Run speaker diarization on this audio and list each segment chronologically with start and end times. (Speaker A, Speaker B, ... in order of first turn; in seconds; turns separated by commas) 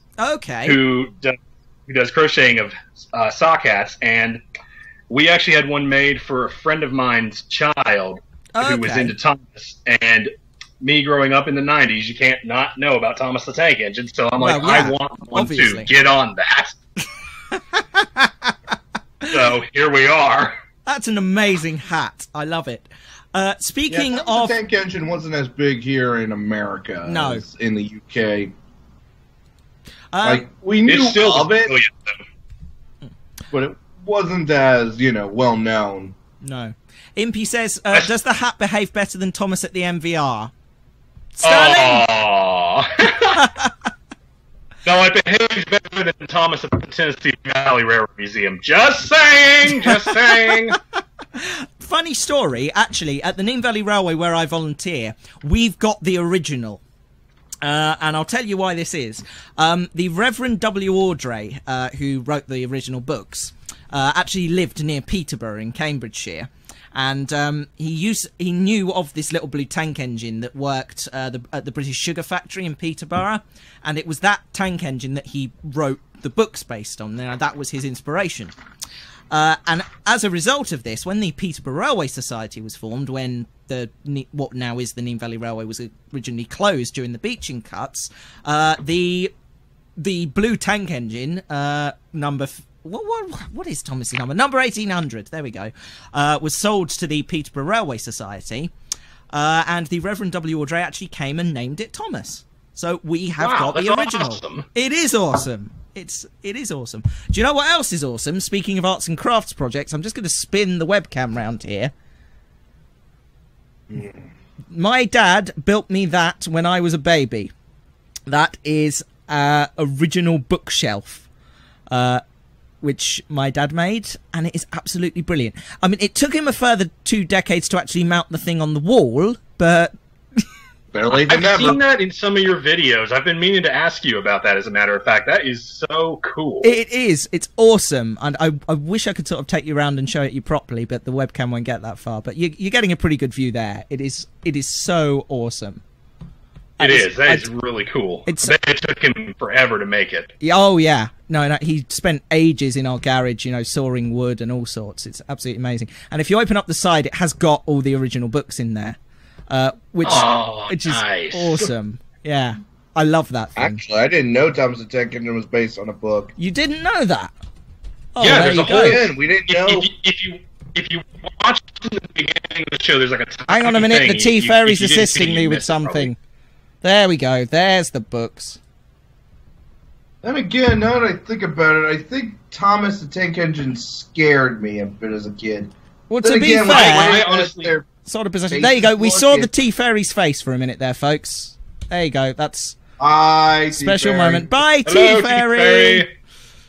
Speaker A: 0.2-0.8, Speaker B: 0.7-4.4, Speaker B: 5.1-16.8, Speaker A: 8.6-9.2, Speaker A: 14.4-15.9, Speaker A: 17.5-18.6, Speaker B: 19.2-20.5, Speaker A: 20.9-24.6, Speaker C: 23.9-28.5, Speaker A: 27.1-27.4, Speaker A: 30.1-30.5, Speaker C: 30.2-31.7, Speaker B: 30.9-32.1, Speaker C: 33.5-36.1, Speaker A: 36.4-40.5, Speaker A: 41.4-42.1, Speaker B: 41.4-43.5, Speaker A: 43.4-43.9, Speaker B: 44.8-50.8, Speaker A: 49.7-50.8, Speaker A: 51.4-56.8, Speaker A: 57.6-78.5, Speaker A: 79.3-89.3, Speaker A: 90.0-98.7, Speaker A: 99.3-111.9, Speaker B: 103.4-104.7, Speaker C: 113.9-114.2, Speaker A: 114.7-117.5, Speaker A: 118.3-121.3, Speaker A: 121.9-122.2, Speaker A: 122.8-129.9, Speaker C: 130.9-131.8, Speaker B: 131.1-136.8, Speaker A: 136.6-145.8, Speaker A: 146.8-147.5, Speaker B: 146.8-150.3, Speaker A: 148.3-148.6, Speaker A: 150.4-159.0, Speaker A: 159.5-163.8, Speaker B: 160.0-161.7, Speaker C: 163.6-166.3, Speaker A: 166.4-167.3, Speaker A: 168.2-169.0, Speaker B: 168.2-176.1, Speaker C: 168.7-169.9, Speaker A: 173.5-176.2, Speaker A: 176.8-178.6, Speaker C: 180.2-185.7, Speaker A: 186.1-187.2, Speaker C: 186.2-187.9, Speaker B: 186.6-187.8, Speaker A: 188.0-192.8, Speaker C: 188.5-189.5, Speaker C: 193.0-194.5, Speaker A: 193.7-196.1, Speaker B: 194.9-196.1